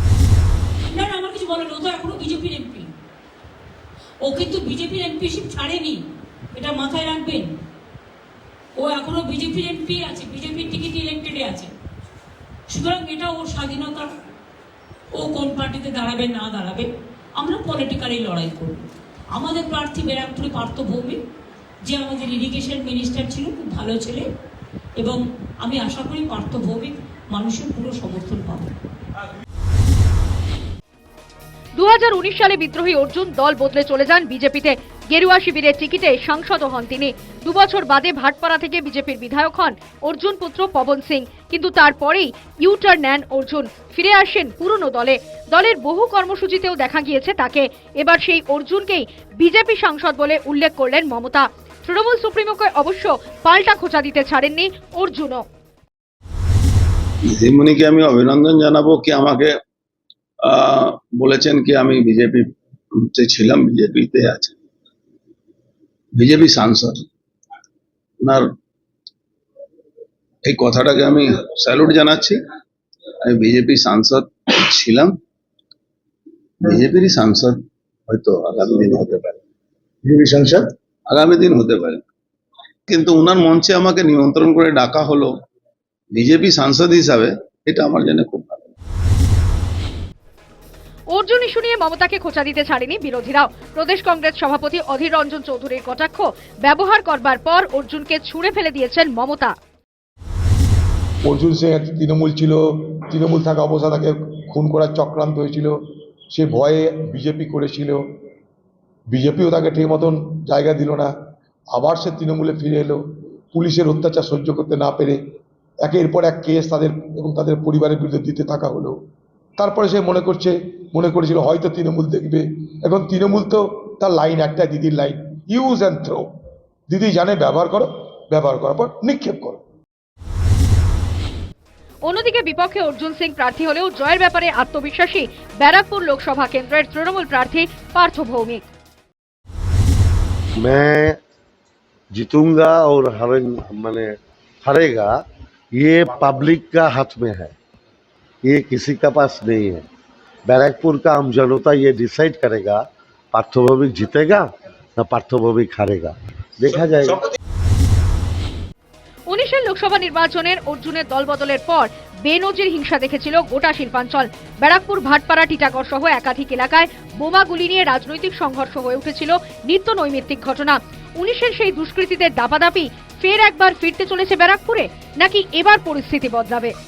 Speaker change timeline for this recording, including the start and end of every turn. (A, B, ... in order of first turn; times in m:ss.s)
0:00.9-0:02.9 A
0:04.2-0:06.0 A
0:06.5-0:07.5 A
0:08.8-0:11.7 A
0:12.7-0:14.1 A
0:15.2-0:18.8 A
0:19.3-0:21.2 A
0:21.8-0:24.2 A
0:25.0-0:28.7 A
0:31.8-0:55.4 B
0:57.3-0:59.5 C
1:00.4-1:04.6 C
1:06.1-1:07.1 C
1:08.2-1:08.5 C
1:10.4-1:12.4 C
1:13.2-1:15.1 C
1:16.6-1:19.4 C
1:20.0-1:22.0 C
1:22.9-1:25.3 C
1:26.1-1:28.7 C
1:31.1-1:39.6 B
1:41.2-1:45.8 D
1:46.3-1:48.0 D
1:49.1-1:51.1 D
1:51.7-1:55.2 D
1:55.8-1:59.0 D
1:59.6-2:06.3 D
2:06.9-2:09.6 D
2:12.0-2:18.7 B
2:20.6-2:21.2 E
2:22.1-2:25.2 E
2:25.8-2:27.6 E
2:28.4-2:29.9 E
2:30.4-2:37.3 E
2:39.3-2:56.7 B